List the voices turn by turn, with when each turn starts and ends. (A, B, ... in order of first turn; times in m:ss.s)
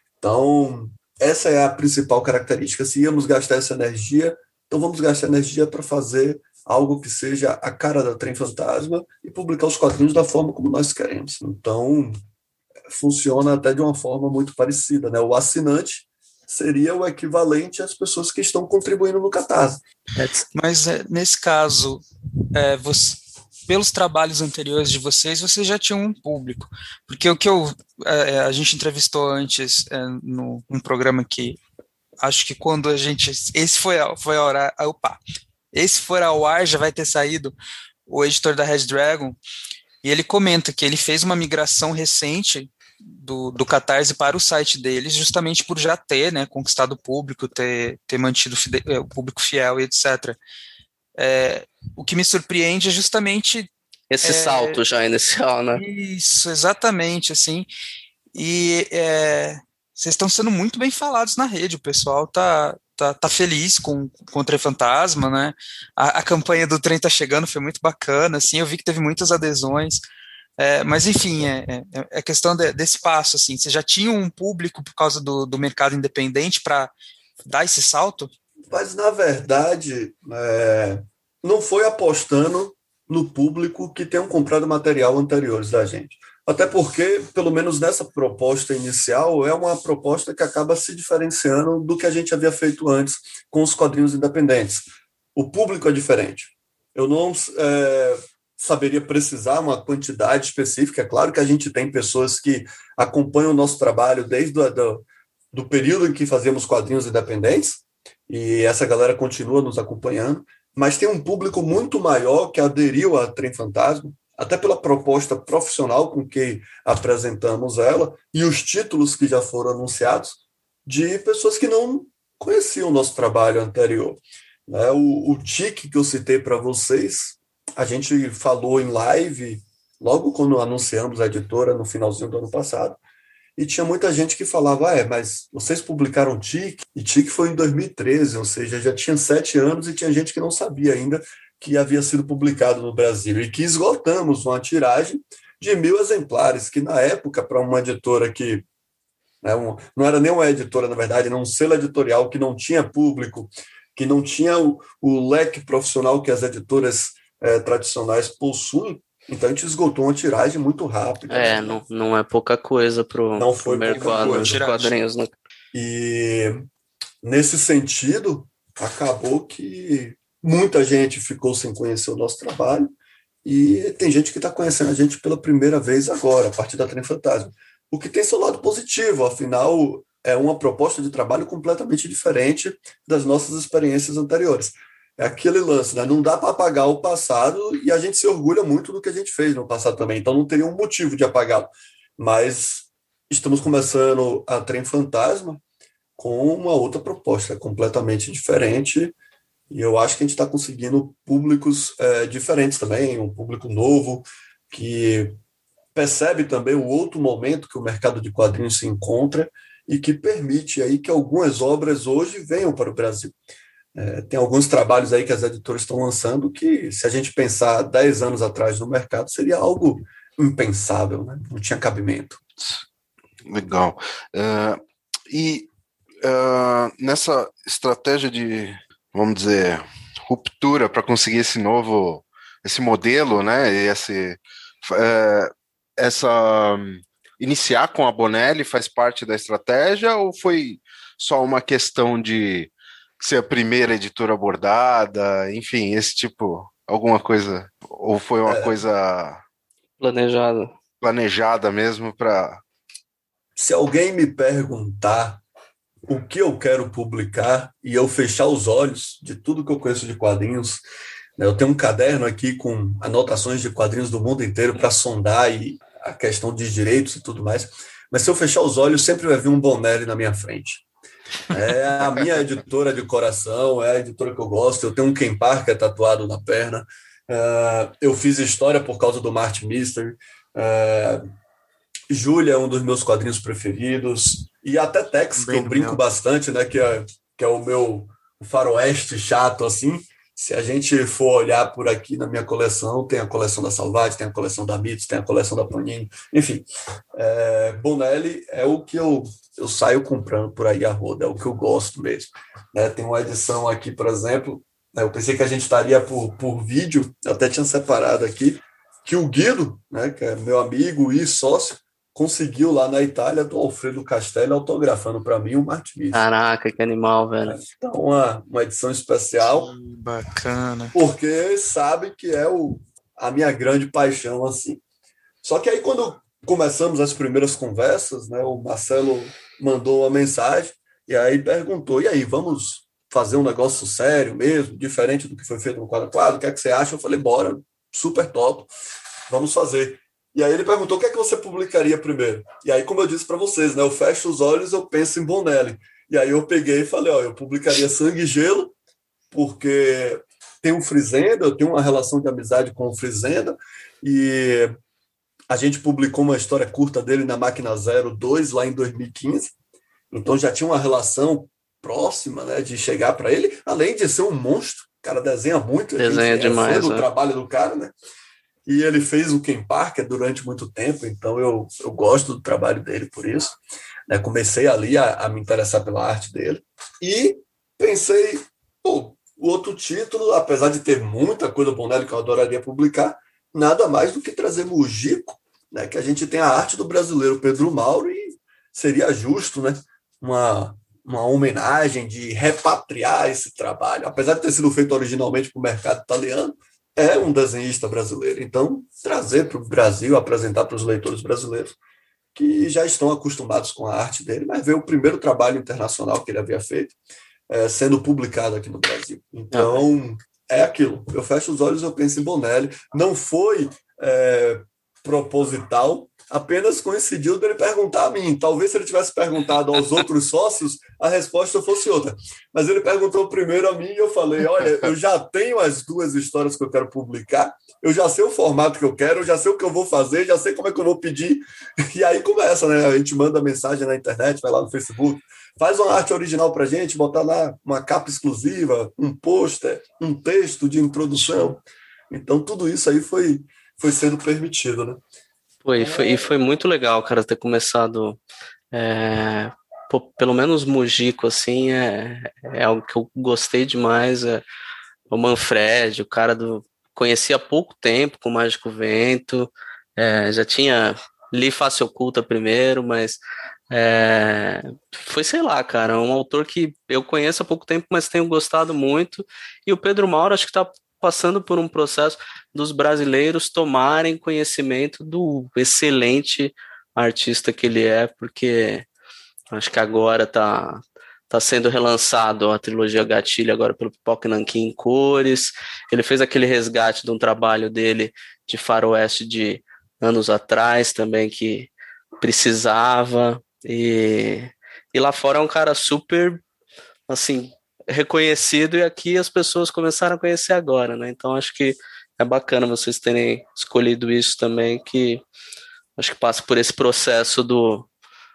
0:00.2-0:12.2 A
0:12.9-0:19.8 A
0:20.5-0:22.0 B
0:22.6-0:31.6 B
0:32.2-0:35.2 B
0:35.7-0:37.6 B
0:38.1-0:39.4 B
0:40.0-0:50.4 B
0:51.2-0:53.7 B
0:54.1-0:55.8 C
0:54.2-0:54.8 B
0:55.8-0:57.7 B
0:58.3-1:10.0 B
1:10.6-1:16.9 B
1:17.4-1:18.3 B
1:18.7-2:13.0 A
2:13.6-2:28.6 A
2:29.4-2:41.8 A
2:41.3-2:45.3 C
2:43.4-2:44.6 A
2:44.0-2:45.0 B
2:45.7-2:46.6 A
2:47.2-2:52.9 A
2:53.4-3:15.6 A
3:16.2-3:19.2 A
3:19.7-3:25.4 A
3:26.0-3:33.3 A
3:34.0-3:42.4 A
3:43.5-3:45.7 D
3:46.2-4:09.4 D
4:08.5-4:08.8 A
4:10.0-4:10.7 C
4:11.0-4:12.6 D
4:13.6-4:15.4 A
4:16.1-4:20.8 A
4:21.4-4:30.8 A
4:31.5-4:41.2 A
4:42.1-5:16.3 A
5:16.1-5:17.6 C
5:17.5-5:19.7 A
5:19.4-5:21.0 B
5:20.9-5:24.8 A
5:25.4-5:38.7 A
5:39.3-5:48.7 A
5:49.3-5:54.7 A
5:55.5-5:59.5 A
6:00.1-6:07.9 A
6:06.0-6:07.1 C
6:08.7-6:13.6 A
6:14.1-6:41.8 A
6:42.4-6:47.0 A
6:47.5-7:25.0 A
6:49.5-6:49.8 C
7:25.6-7:28.2 C
7:25.8-7:26.3 A
7:28.7-7:34.4 C
7:35.1-7:43.2 C
7:43.7-7:58.9 C
7:59.5-8:11.7 C
8:12.2-8:16.4 C
8:17.1-8:25.2 C
8:26.0-8:27.9 C